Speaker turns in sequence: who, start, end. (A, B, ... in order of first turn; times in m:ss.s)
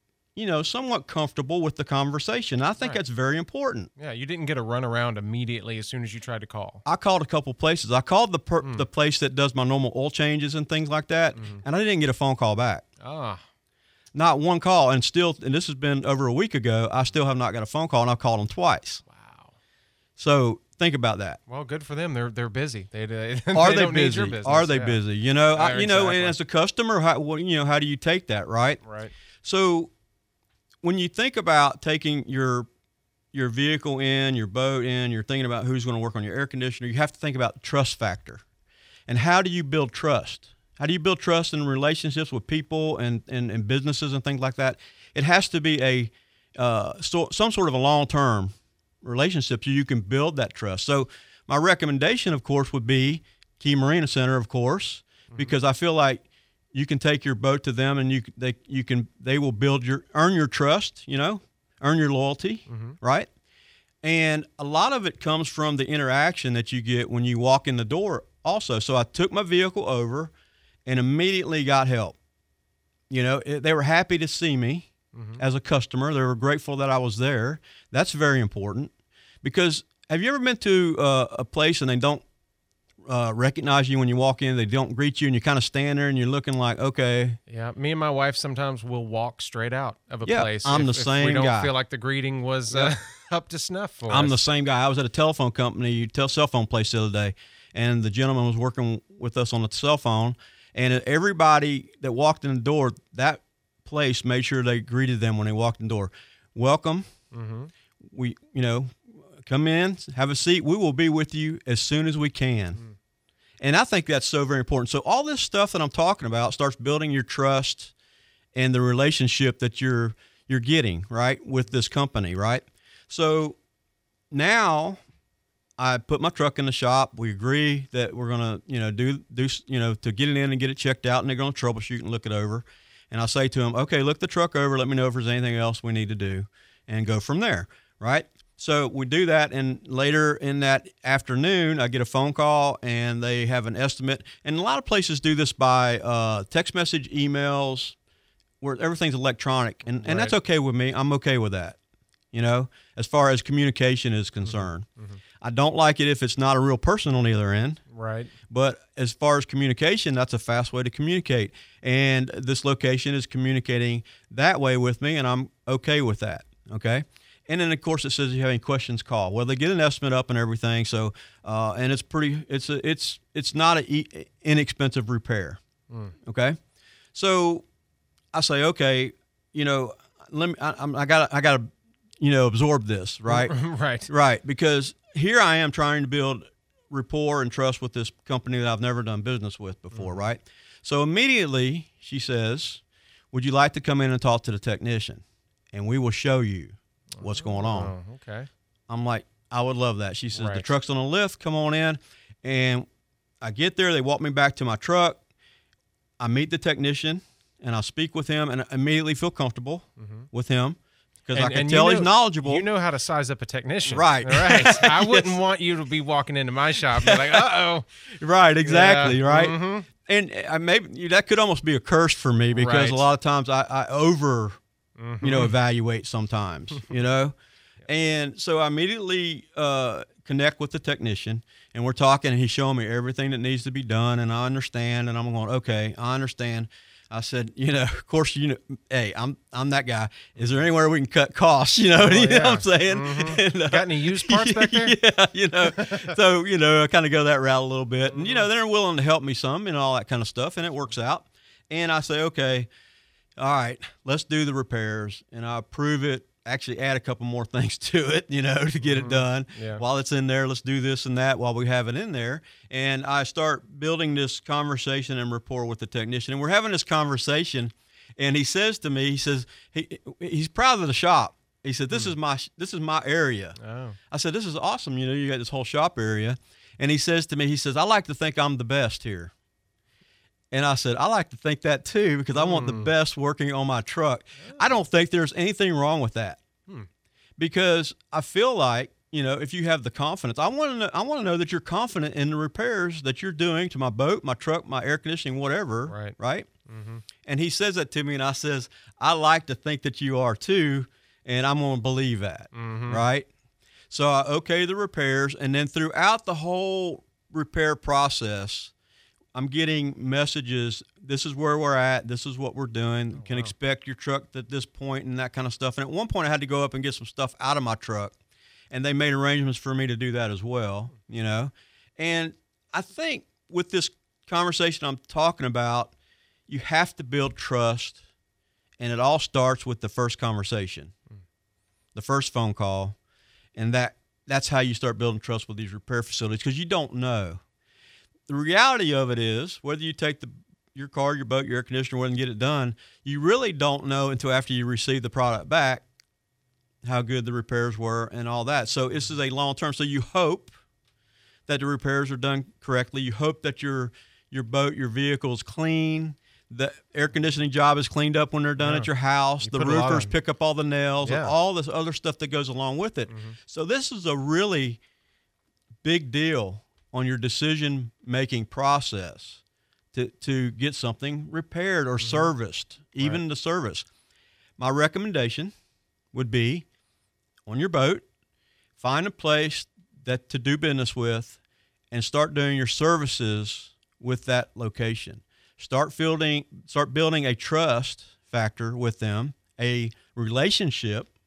0:00.4-0:03.9 A
0:04.0-0:06.8 B
0:06.8-0:12.8 A
0:11.4-0:11.6 B
0:13.0-0:13.4 B
0:14.1-0:19.0 A
0:19.1-0:19.5 B
0:20.2-0:21.4 A
0:21.5-0:26.4 B
0:23.5-0:28.8 A
0:28.8-0:29.1 B
0:29.4-0:29.9 A
0:30.8-0:32.7 A
0:33.3-0:38.4 A
0:39.1-1:03.3 A
0:55.3-0:55.6 B
1:02.7-1:03.0 B
1:04.0-1:10.3 A
1:10.9-1:12.2 A
1:13.1-1:18.9 A
1:15.1-1:15.4 B
1:19.4-1:22.2 A
1:23.1-1:27.4 A
1:27.5-1:34.4 B
1:30.2-1:31.7 A
1:34.1-1:47.1 A
1:47.3-1:47.7 B
1:48.0-1:52.8 A
1:53.6-1:57.9 A
1:58.6-2:03.6 A
2:04.3-2:05.0 A
2:05.8-2:28.0 A
2:28.6-2:31.8 A
2:30.0-2:30.3 B
2:32.3-2:34.9 A
2:34.4-2:35.2 B
2:35.4-2:37.8 A
2:37.9-2:38.3 B
2:38.5-2:55.6 A
2:56.2-2:56.6 A
2:57.1-2:57.6 A
2:58.3-3:03.6 A
3:03.3-3:04.1 B
3:04.1-3:17.9 A
3:09.9-3:10.2 B
3:17.2-3:18.5 B
3:18.9-3:22.9 A
3:20.3-3:20.7 B
3:23.4-3:25.2 A
3:26.2-3:32.6 A
3:30.0-3:30.3 B
3:31.3-3:37.9 B
3:33.9-3:35.4 A
3:37.0-3:37.4 A
3:38.1-3:44.6 A
3:38.6-3:39.9 B
3:42.5-3:43.1 B
3:45.0-3:45.6 B
3:45.2-3:47.4 A
3:47.9-4:12.7 A
4:02.0-4:05.0 B
4:05.8-4:06.1 B
4:08.1-4:08.5 B
4:13.4-4:33.6 A
4:18.8-4:19.8 B
4:33.6-4:34.0 B
4:34.1-4:39.3 A
4:40.5-4:46.4 A
4:42.4-4:42.9 B
4:47.4-4:56.5 A
4:55.9-4:56.2 B
4:56.7-4:57.0 B
4:57.2-5:03.3 A
5:02.5-5:03.1 B
5:03.9-5:08.7 A
5:09.4-5:18.2 A
5:13.2-5:13.5 B
5:18.7-5:25.9 A
5:26.5-5:28.0 A
5:28.8-5:30.9 A
5:32.0-5:33.0 A
5:33.6-5:37.4 A
5:38.3-5:45.8 A
5:46.8-5:50.6 A
5:51.5-6:04.8 A
5:58.6-5:58.9 B
5:59.4-6:00.1 B
6:01.0-6:01.3 B
6:03.1-6:03.4 B
6:05.8-6:09.4 A
6:09.9-6:13.9 A
6:12.0-6:12.3 B
6:14.6-6:15.5 A
6:16.1-6:16.7 A
6:17.5-6:18.0 A
6:18.8-6:21.4 A
6:21.9-6:31.1 A